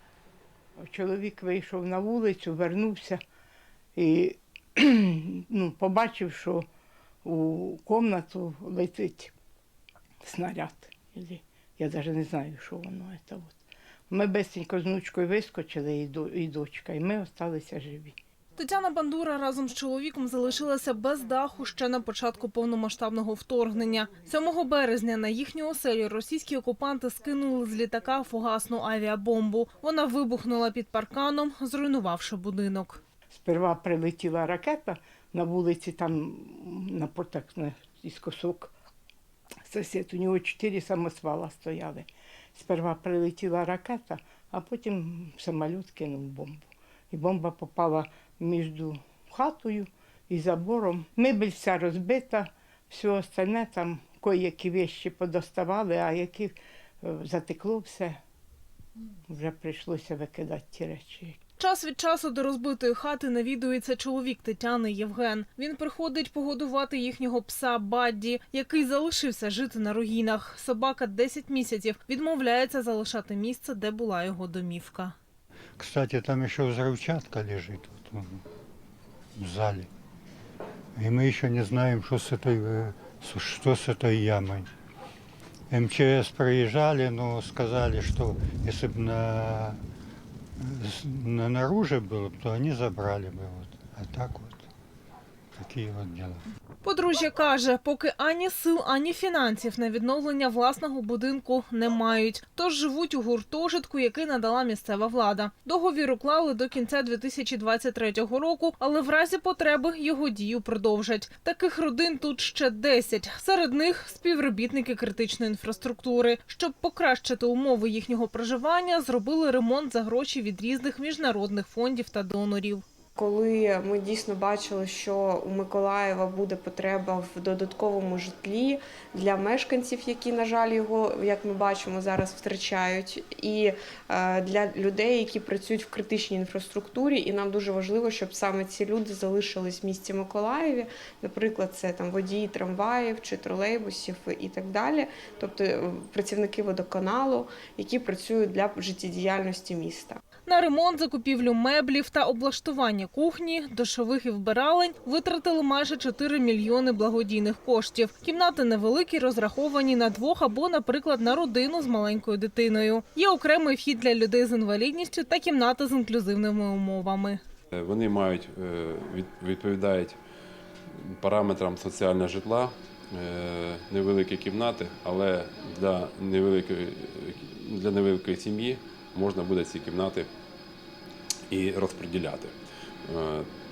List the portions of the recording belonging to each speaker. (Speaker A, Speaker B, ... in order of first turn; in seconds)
Speaker A: 0.8-3.2, 4.0-6.7, 7.2-9.3, 10.2-13.6, 14.1-18.1, 33.3-38.7, 39.7-58.2, 59.3-61.4
Speaker B: 18.6-33.0, 61.6-75.2, 96.8-122.8, 150.5-167.4
Speaker C: 75.8-78.4, 79.3-79.9, 81.0-84.7, 85.7-89.8, 90.6-94.7, 95.6-96.4
Speaker D: 123.2-150.2
Speaker E: 167.7-170.2, 170.9-180.3, 181.5-183.5